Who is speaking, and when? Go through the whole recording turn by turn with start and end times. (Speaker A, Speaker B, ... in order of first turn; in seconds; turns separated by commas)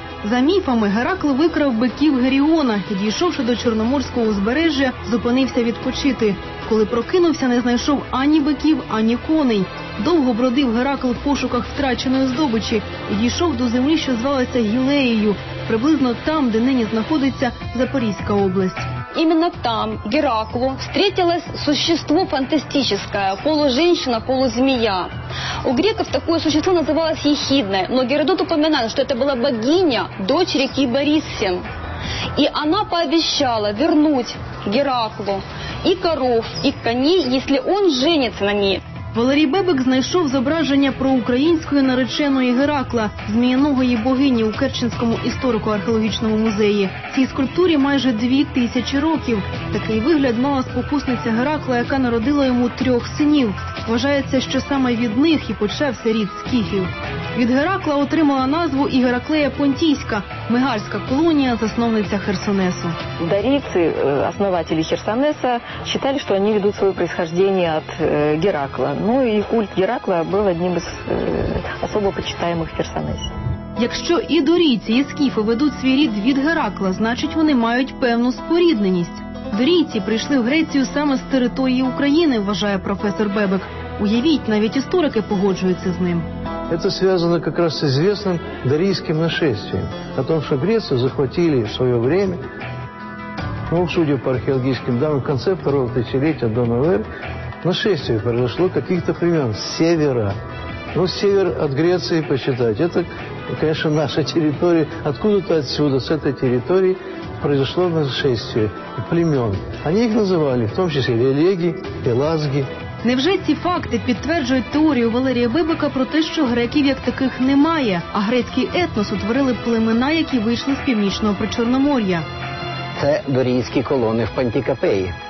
Speaker A: 0.2-18.9, Speaker B: 19.1-25.1, Speaker B: 25.6-31.6, Speaker B: 32.3-38.8, Speaker A: 39.1-63.0, Speaker C: 63.2-73.3, Speaker A: 73.8-86.2, Speaker D: 86.7-92.4, Speaker D: 93.7-97.0, Speaker D: 97.6-100.3, Speaker D: 100.9-112.7, Speaker A: 113.0-122.2, Speaker E: 123.0-125.1